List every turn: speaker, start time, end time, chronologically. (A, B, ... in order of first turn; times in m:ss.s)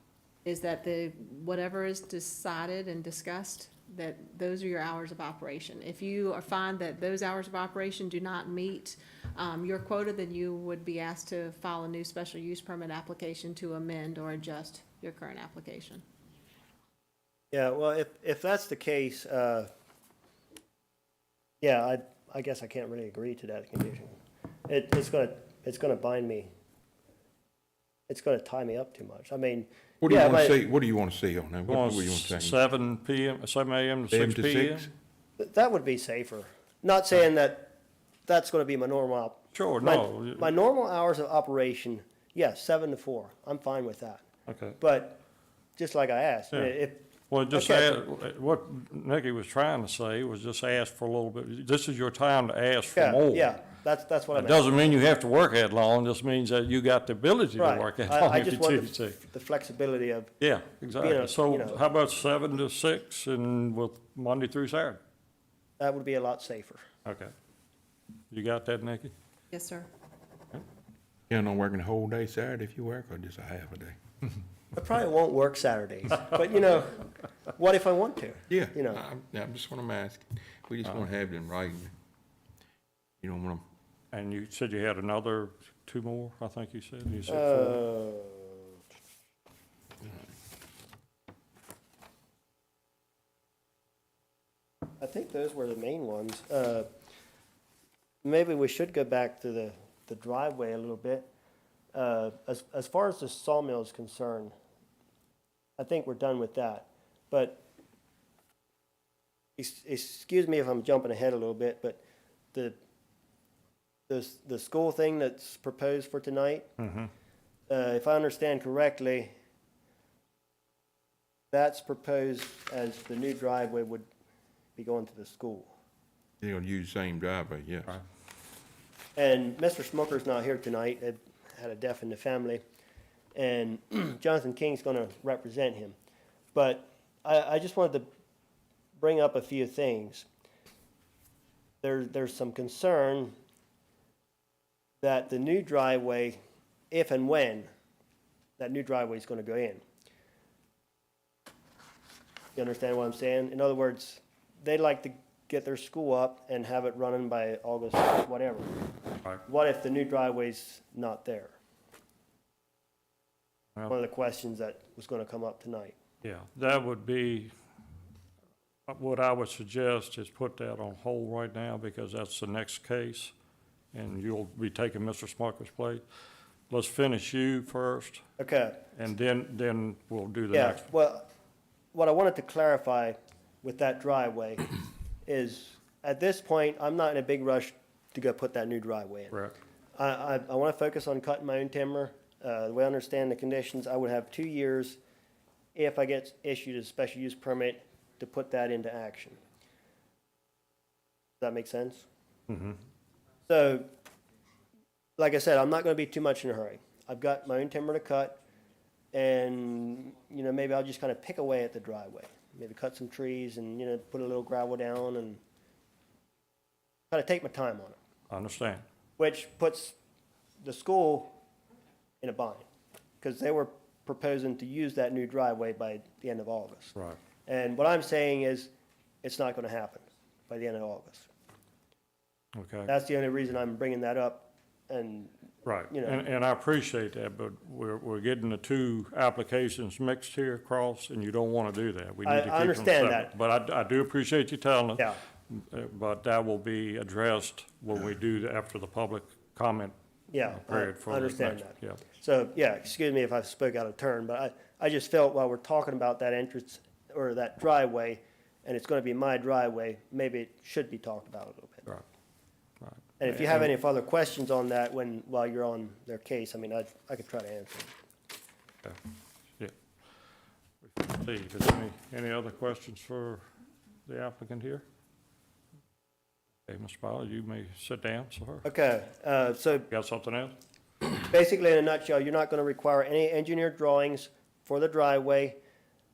0:00.4-0:16.0 A
0:17.5-0:19.7 B
0:21.6-0:24.2 B
0:24.7-0:26.5 B
0:28.1-0:30.6 B
0:30.0-0:32.6 C
0:31.7-0:34.9 D
0:34.1-0:34.9 C
0:35.4-0:37.8 B
0:38.3-0:44.2 B
0:39.5-0:40.5 D
0:44.5-0:44.8 D
0:44.8-0:45.2 B
0:45.8-0:48.0 B
0:47.3-0:53.6 D
0:52.9-0:54.9 B
0:54.3-0:59.2 D
0:57.6-1:00.3 B
1:00.4-1:05.0 D
1:01.0-1:01.8 B
1:05.8-1:06.9 B
1:07.0-1:07.3 D
1:08.3-1:09.1 D
1:09.5-1:09.9 A
1:11.3-1:14.0 C
1:14.7-1:19.0 B
1:18.5-1:21.9 C
1:23.2-1:23.6 C
1:24.1-1:27.8 D
1:27.3-1:28.7 B
1:35.0-1:36.9 B
1:38.2-1:41.3 B
1:41.9-1:44.5 B
1:45.8-1:47.6 B
1:49.6-1:52.0 B
1:54.1-1:56.7 B
1:56.8-1:57.1 D
1:57.7-1:59.3 B
2:01.5-2:04.1 B
2:04.8-2:05.7 B
2:06.4-2:08.0 C
2:09.2-2:12.6 B
2:13.3-2:16.0 B
2:16.6-2:18.1 B
2:19.0-2:20.3 B
2:21.8-2:23.3 B
2:25.0-2:26.4 B
2:26.9-2:27.7 B
2:28.6-2:29.8 B
2:32.6-2:38.7 B
2:39.5-2:41.6 B
2:43.9-2:46.0 B
2:46.2-2:47.5 D
2:48.9-2:53.3 D
2:53.9-2:56.0 D
2:56.7-2:58.2 D
2:58.4-2:58.8 B
2:58.9-3:00.9 D
3:00.5-3:01.3 B
3:01.9-3:04.7 B
3:05.2-3:09.4 B
3:09.3-3:09.6 D
3:09.9-3:15.0 B
3:15.8-3:19.4 B
3:21.4-3:22.1 B
3:22.5-3:22.8 D
3:23.5-3:23.9 B
3:25.2-3:28.4 B
3:29.1-3:35.4 B
3:37.1-3:38.0 B
3:38.3-3:38.8 D
3:39.2-3:40.0 B
3:40.6-3:41.3 B
3:42.2-3:42.6 B
3:43.2-3:46.9 B
3:47.5-3:48.7 B
3:49.2-3:51.3 B
3:52.6-3:52.9 D
3:52.9-3:55.3 B
3:55.6-4:10.0 D
3:55.9-3:56.2 B
4:02.2-4:03.3 B
4:10.3-4:21.9 B
4:10.5-4:12.0 D
4:22.8-4:23.7 D
4:23.2-4:27.9 B
4:30.8-4:33.4 D
4:34.1-4:34.8 D
4:36.7-4:38.6 D
4:38.6-4:39.9 B
4:39.9-4:40.6 D
4:41.3-4:45.6 B